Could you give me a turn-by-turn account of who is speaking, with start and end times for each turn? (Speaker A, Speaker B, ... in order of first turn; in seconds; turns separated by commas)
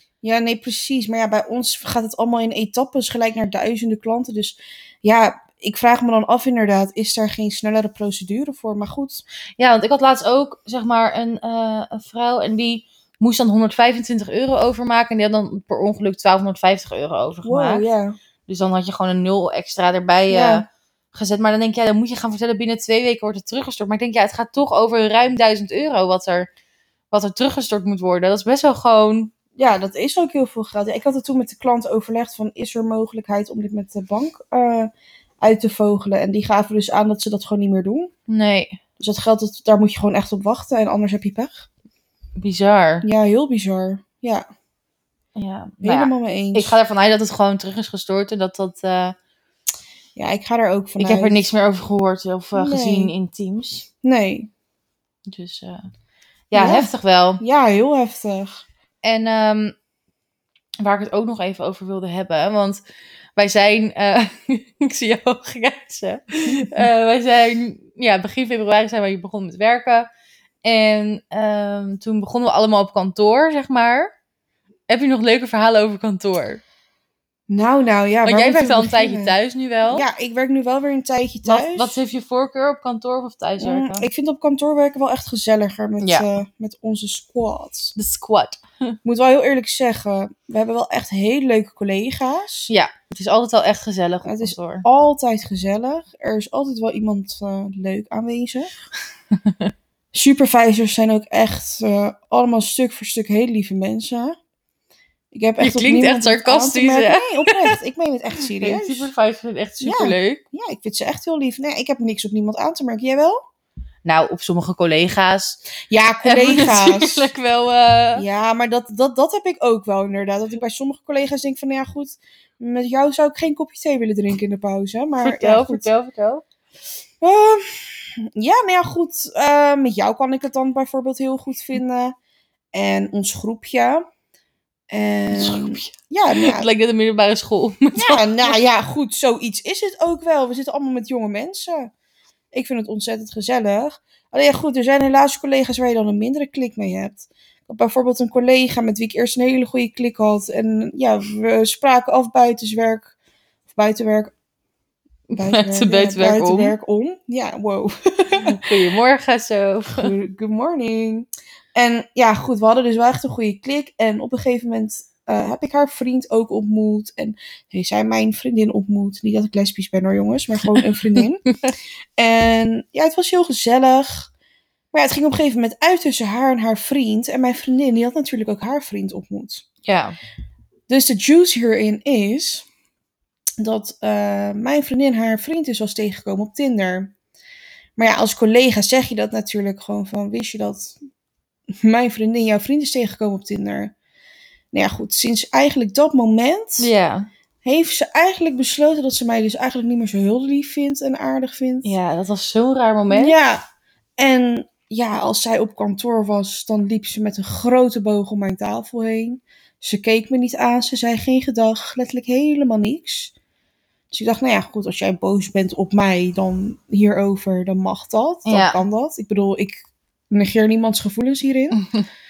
Speaker A: 0.2-9.2, Speaker B: 9.6-17.9, Speaker A: 17.4-18.2, Speaker B: 18.5-26.5, Speaker A: 20.3-20.6, Speaker B: 27.1-29.3, Speaker A: 29.6-38.1, Speaker B: 38.3-38.8, Speaker A: 39.0-41.7, Speaker B: 42.4-43.1, Speaker A: 43.0-44.5, Speaker B: 45.4-49.1, Speaker A: 45.8-46.8, Speaker A: 50.2-51.5, Speaker B: 51.0-53.9, Speaker A: 52.5-53.1, Speaker A: 54.0-54.5, Speaker B: 55.3-55.9, Speaker B: 56.5-57.4, Speaker A: 56.5-58.6, Speaker B: 59.0-59.7, Speaker B: 60.8-62.8, Speaker B: 63.4-70.1, Speaker A: 66.5-66.9, Speaker B: 70.6-74.1, Speaker B: 74.9-76.6, Speaker A: 77.5-79.3, Speaker B: 78.3-80.1, Speaker A: 79.9-82.0, Speaker B: 81.5-84.1, Speaker A: 83.6-88.0, Speaker B: 86.0-86.3, Speaker B: 88.0-89.0, Speaker A: 89.0-92.7, Speaker B: 92.7-94.8, Speaker A: 94.2-98.7, Speaker A: 100.1-104.4, Speaker A: 105.3-109.1, Speaker B: 105.6-107.8, Speaker B: 108.5-110.4, Speaker A: 109.8-113.4, Speaker B: 114.0-115.6, Speaker A: 115.9-117.3, Speaker B: 116.2-118.2, Speaker A: 118.2-125.9, Speaker B: 125.2-126.4, Speaker A: 127.2-132.2, Speaker A: 132.7-134.1, Speaker A: 134.9-136.7, Speaker B: 135.3-138.6, Speaker A: 137.9-141.9, Speaker A: 142.5-153.1, Speaker A: 153.7-154.3, Speaker B: 155.3-156.8, Speaker A: 155.3-158.6, Speaker B: 158.3-160.1, Speaker A: 159.9-171.4, Speaker A: 172.2-174.3, Speaker A: 174.9-179.7, Speaker B: 179.8-180.2, Speaker A: 180.9-182.7, Speaker A: 183.6-187.1, Speaker A: 188.0-191.0, Speaker A: 191.8-193.9, Speaker A: 194.7-196.9, Speaker B: 196.8-197.3, Speaker A: 197.6-201.9, Speaker B: 201.8-203.4, Speaker A: 203.1-203.6, Speaker A: 204.2-213.3, Speaker A: 214.1-221.8, Speaker B: 218.5-218.8, Speaker B: 221.7-222.1